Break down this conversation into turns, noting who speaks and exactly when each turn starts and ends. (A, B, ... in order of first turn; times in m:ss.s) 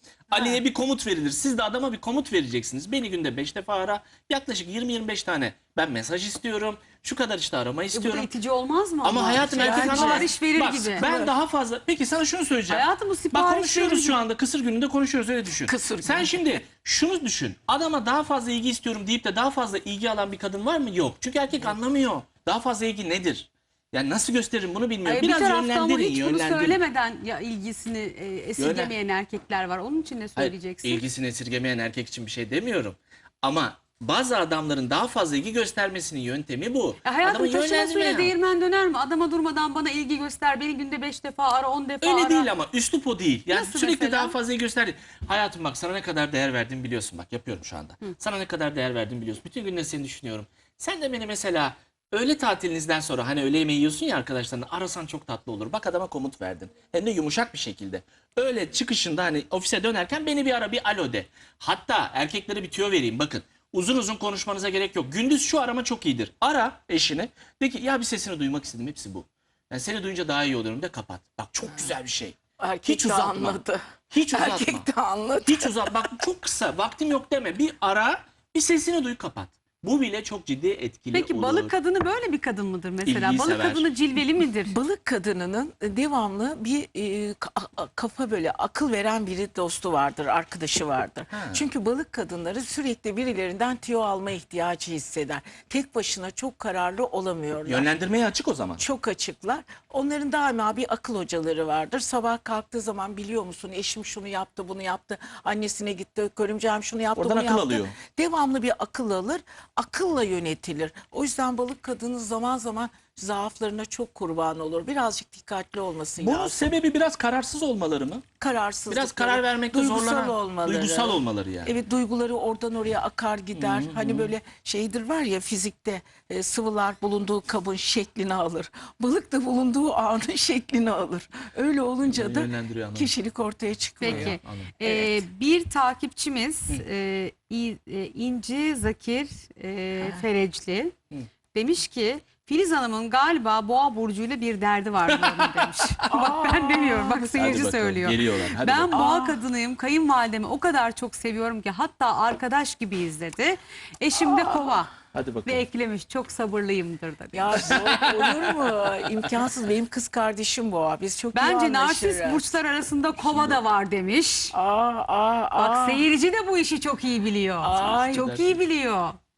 0:00.3-0:08.3 A
0:00.3-0:00.6 B
0:07.9-0:11.0 C
0:09.0-0:26.8 A
0:09.6-0:10.3 B
0:11.0-0:11.3 B
0:12.7-0:14.2 C
0:15.6-0:16.4 B
0:25.0-0:31.0 C
0:28.6-0:28.9 A
0:30.4-0:38.3 A
0:37.0-0:42.5 C
0:42.0-1:14.9 A
0:43.5-0:44.4 C
1:12.6-1:16.1 B
1:15.4-1:21.7 A
1:21.1-1:24.8 C
1:23.0-1:23.9 A
1:24.7-1:37.9 B
1:31.3-1:31.6 A
1:37.6-1:38.8 A
1:38.8-1:56.7 B
1:47.1-1:48.0 A
1:56.2-1:58.2 A
1:58.4-2:15.2 B
1:58.9-2:01.7 A
2:03.5-2:04.3 A
2:12.0-2:13.1 A
2:14.0-2:20.9 C
2:14.0-2:14.7 A
2:20.0-2:20.2 B
2:21.5-2:34.9 C
2:25.1-2:25.8 A
2:26.1-2:27.6 B
2:27.3-2:29.0 A
2:28.9-2:29.4 B
2:34.2-2:34.7 B
2:35.1-2:35.6 A
2:35.4-2:37.8 C
2:37.3-2:42.6 B
2:37.6-2:38.7 A
2:41.3-2:44.5 C
2:43.2-2:43.6 A
2:44.5-2:46.0 B
2:45.6-2:49.2 C
2:47.6-2:48.3 B
2:47.7-2:48.6 A